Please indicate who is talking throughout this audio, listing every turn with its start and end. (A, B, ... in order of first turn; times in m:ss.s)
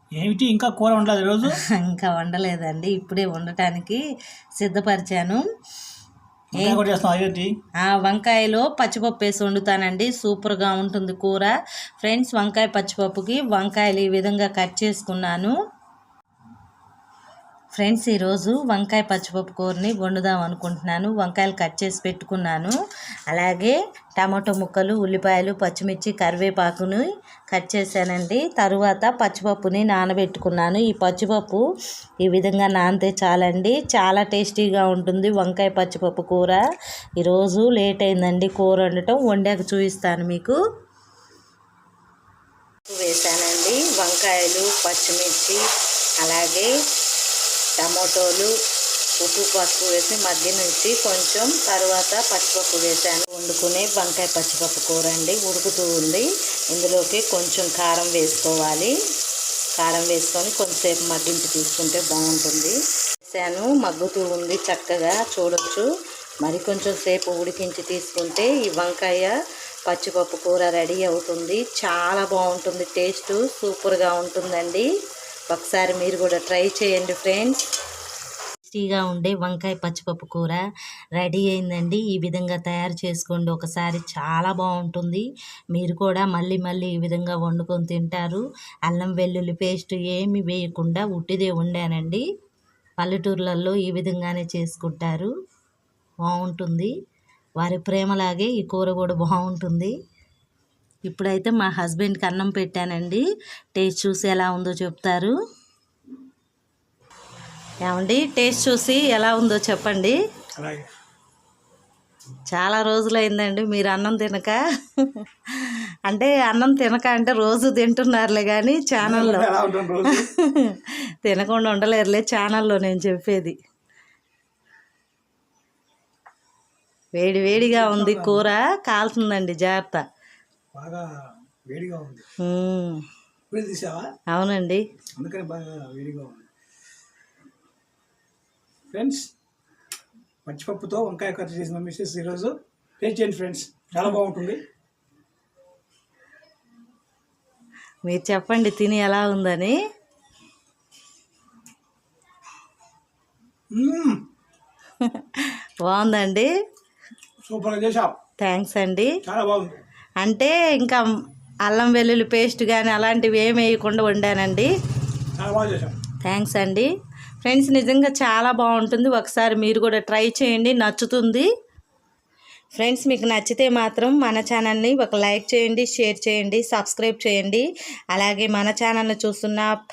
0:00.2-0:01.5 A
0:01.5-0:04.0 B
0:04.6-0:05.4 B
0:06.6-0:06.8 B
0:06.6-0:07.5 A
0:07.8-0:15.5 B
0:17.8-0:22.7 B
0:23.3-0:31.6 B
0:32.2-0:36.6 B
0:37.2-0:40.6 B
0:42.9-0:45.6 B
0:46.2-0:46.7 B
0:47.8-0:48.5 B
0:49.2-0:58.9 B
0:59.8-1:05.9 B
1:06.4-1:09.3 B
1:09.9-1:14.9 B
1:15.5-1:17.6 B
1:18.6-1:20.6 B
1:21.2-1:32.2 B
1:33.0-1:35.3 B
1:36.3-1:36.9 B
1:37.6-1:39.9 B
1:41.1-1:43.2 B
1:43.8-1:45.3 B
1:47.8-1:50.2 B
1:50.6-1:50.9 A
1:52.5-1:59.5 B
1:59.0-2:00.3 A
2:00.0-2:03.6 B
2:07.2-2:10.0 B
2:07.4-2:08.5 A
2:10.7-2:11.1 A
2:11.7-2:12.2 A
2:12.4-2:13.0 B
2:13.5-2:14.1 A
2:14.3-2:14.8 B
2:15.2-2:16.5 A
2:18.9-2:19.3 A
2:20.4-2:24.6 A
2:28.1-2:29.8 B
2:33.7-2:34.2 A
2:35.0-2:36.5 B
2:37.5-2:38.2 A
2:38.4-2:39.1 B
2:39.2-2:39.8 A
2:40.2-2:41.0 B
2:41.6-2:44.7 B
2:45.4-2:46.0 A
2:46.2-2:46.9 B
2:47.4-2:51.5 B
2:52.7-2:59.7 B